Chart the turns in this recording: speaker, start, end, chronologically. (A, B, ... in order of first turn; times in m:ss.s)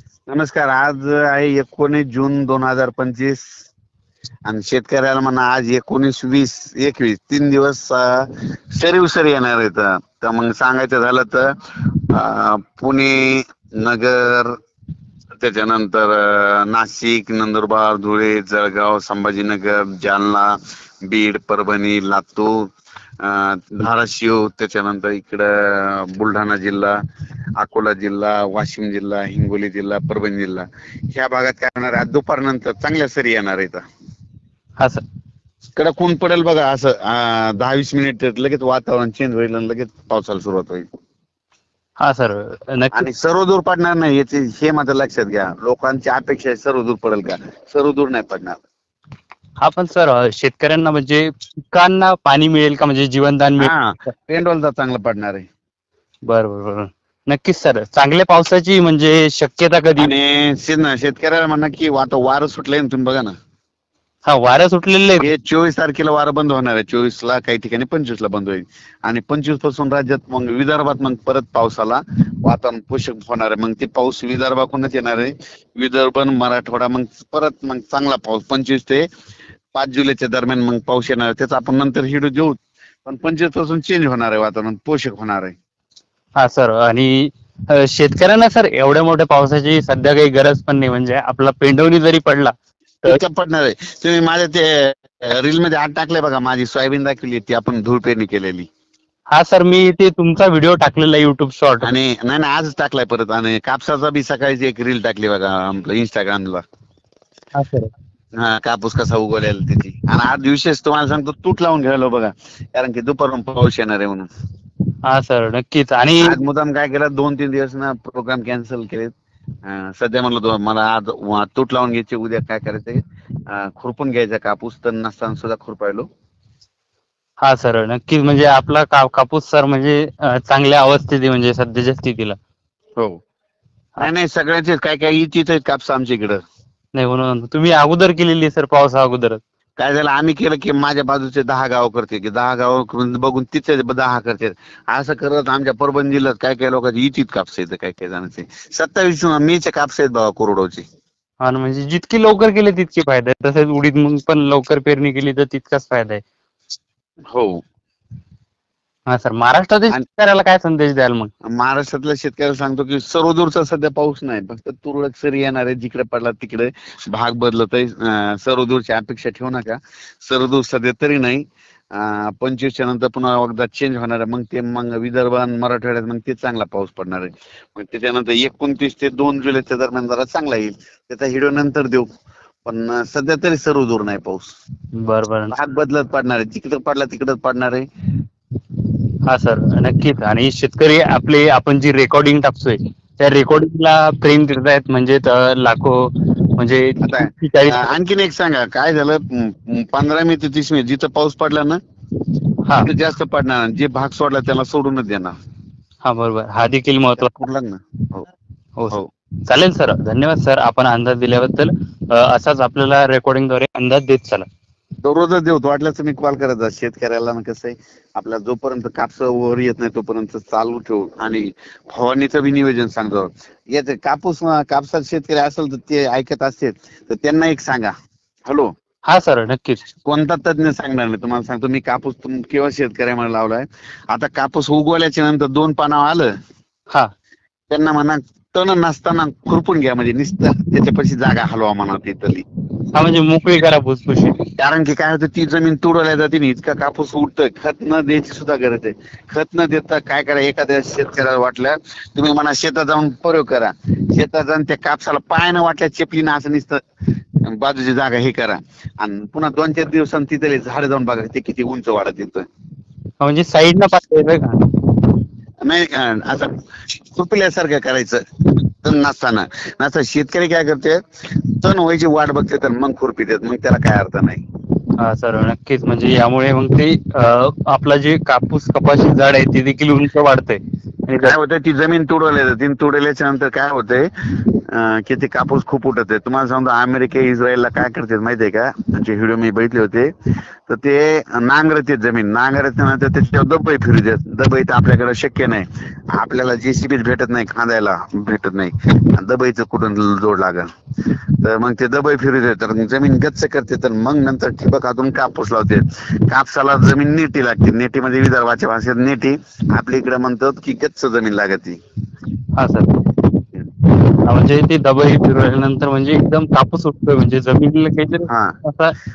0:00.3-0:03.4 A
0:04.5-0:11.5 A
0:12.0-0:14.6 A
0:15.4-0:27.0 A
0:27.6-0:33.8 A
0:35.8-0:40.8 A
0:42.0-0:43.1 B
0:42.9-0:48.6 A
0:49.6-0:53.7 B
0:53.6-0:55.4 A
0:56.3-1:00.1 B
1:00.0-1:03.3 A
1:04.3-1:05.3 B
1:05.2-1:19.1 A
1:19.7-1:25.5 A
1:26.4-1:32.5 B
1:33.0-1:38.7 A
1:39.3-1:41.9 B
1:41.8-1:46.6 A
1:47.5-1:47.9 B
1:48.4-1:54.3 A
1:55.0-1:56.4 B
1:56.2-1:59.1 A
1:59.6-2:06.1 A
2:07.4-2:12.4 B
2:14.0-2:16.4 A
2:16.9-2:19.4 B
2:19.8-2:30.8 A
2:31.4-2:36.2 B
2:37.3-2:37.6 A
2:39.1-2:41.3 B
2:41.5-3:02.1 A
3:02.6-3:04.5 A
3:05.0-3:05.6 B
3:05.5-3:07.8 A
3:09.3-3:17.9 B
3:17.0-3:21.8 A
3:22.8-3:25.4 A
3:26.0-3:27.3 B
3:27.2-3:28.3 A
3:28.8-3:34.4 B
3:35.0-3:47.9 A
3:49.1-3:49.8 B
3:50.0-3:56.3 A
3:57.7-4:02.4 A
4:02.9-4:04.4 B
4:04.6-4:16.8 A
4:17.4-4:22.4 A
4:23.2-4:24.6 B
4:25.6-4:26.5 A
4:27.1-4:34.4 A
4:35.0-4:41.3 B
4:41.2-4:50.1 A
4:50.7-5:00.7 A
5:01.4-5:11.8 A
5:12.6-5:13.0 B
5:14.2-5:19.0 B
5:18.3-5:18.6 A